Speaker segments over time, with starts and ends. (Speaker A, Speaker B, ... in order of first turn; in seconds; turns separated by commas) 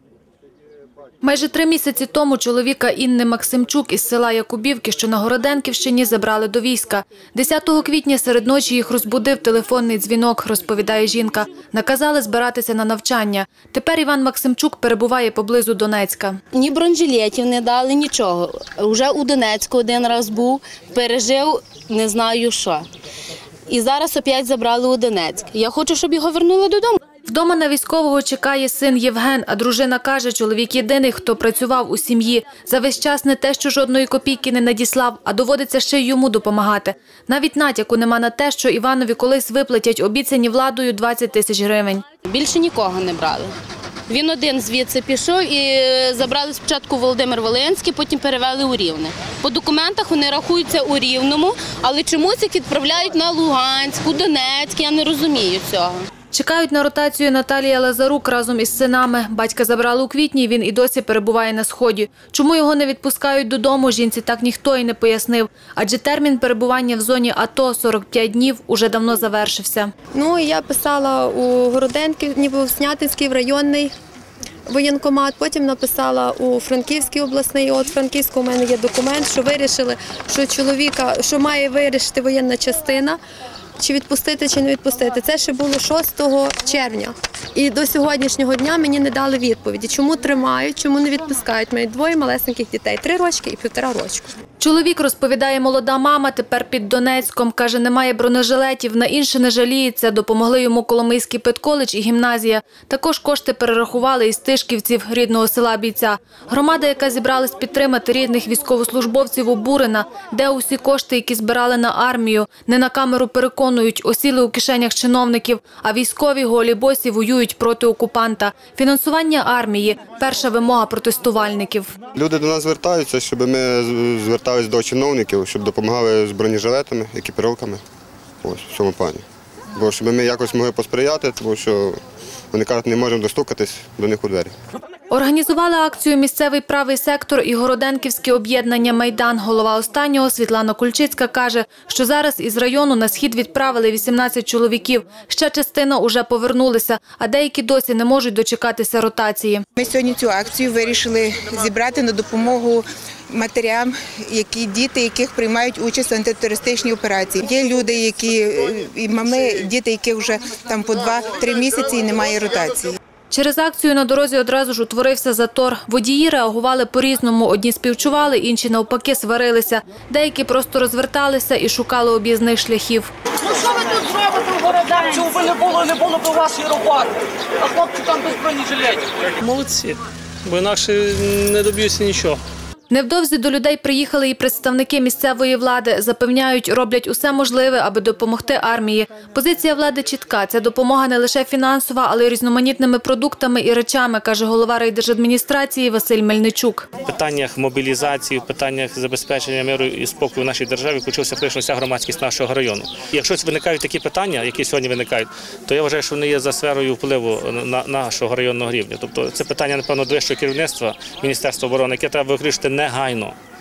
Speaker A: 1.2-16.4, Speaker B: 16.5-22.9, Speaker B: 23.7-27.0, Speaker A: 27.3-42.0, Speaker B: 42.3-43.5, Speaker B: 44.1-56.0, Speaker A: 56.3-69.9, Speaker C: 70.1-73.9, Speaker C: 74.7-83.2, Speaker C: 83.8-94.3, Speaker A: 94.6-121.9, Speaker D: 122.2-127.8, Speaker D: 128.4-129.2, Speaker D: 129.8-132.0, Speaker D: 132.5-134.5, Speaker A: 135.1-149.6, Speaker E: 149.8-163.0, Speaker A: 163.3-173.1, Speaker F: 173.6-177.1, Speaker F: 177.7-178.7, Speaker G: 179.4-182.4, Speaker A: 182.9-196.9, Speaker G: 197.1-213.4